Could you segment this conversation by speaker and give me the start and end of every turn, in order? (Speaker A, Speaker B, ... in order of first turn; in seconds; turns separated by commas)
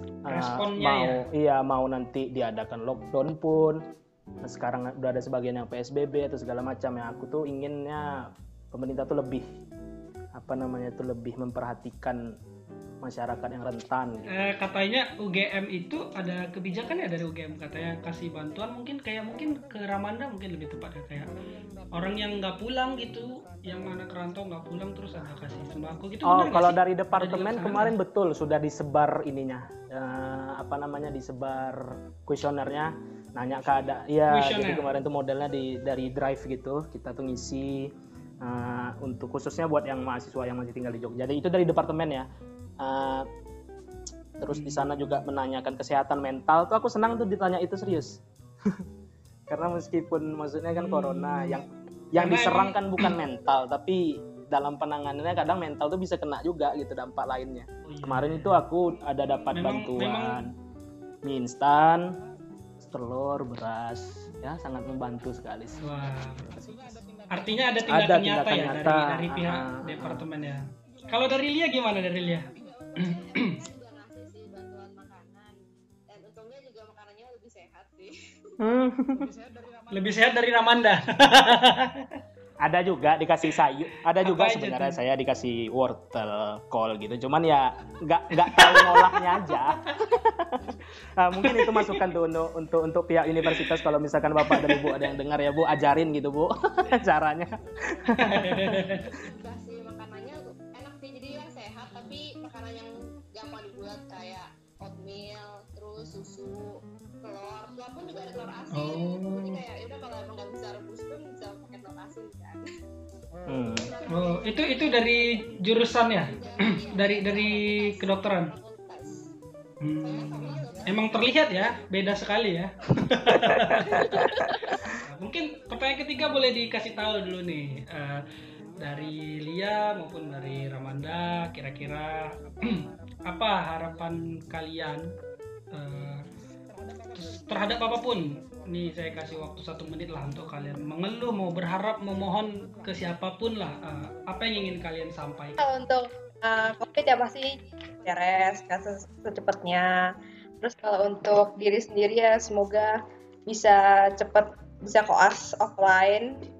Speaker A: 0.2-3.8, Speaker B: 0.3-1.2, Speaker A: 4.4-8.1, Speaker A: 8.7-9.4, Speaker A: 10.3-12.2, Speaker A: 13.0-14.3, Speaker B: 14.3-21.3, Speaker B: 21.9-27.9, Speaker A: 26.2-42.3, Speaker B: 34.3-34.9, Speaker A: 42.8-43.2, Speaker A: 44.4-48.8, Speaker B: 44.5-44.9, Speaker A: 49.5-60.5, Speaker B: 50.7-51.6, Speaker B: 52.2-53.1, Speaker B: 57.9-58.6, Speaker B: 59.5-60.4, Speaker A: 61.2-62.1, Speaker A: 62.8-67.0, Speaker B: 65.8-66.5, Speaker C: 66.4-67.9, Speaker B: 67.3-72.5, Speaker A: 67.9-70.2, Speaker C: 72.3-78.1, Speaker B: 73.0-73.6, Speaker A: 78.6-79.3, Speaker C: 79.1-80.9, Speaker B: 79.9-82.0, Speaker A: 82.6-90.6, Speaker B: 84.2-85.0, Speaker B: 88.5-89.1, Speaker A: 91.2-98.8, Speaker B: 94.4-94.9, Speaker C: 97.5-112.7, Speaker B: 98.1-99.0, Speaker B: 108.7-109.6, Speaker A: 113.5-113.9, Speaker C: 113.8-119.2, Speaker B: 114.1-118.5, Speaker B: 119.8-124.3, Speaker C: 120.0-122.1, Speaker C: 123.9-124.5, Speaker B: 125.0-128.2, Speaker B: 128.8-135.1, Speaker B: 135.7-136.2, Speaker B: 137.1-145.6, Speaker D: 145.6-152.9, Speaker D: 153.5-156.3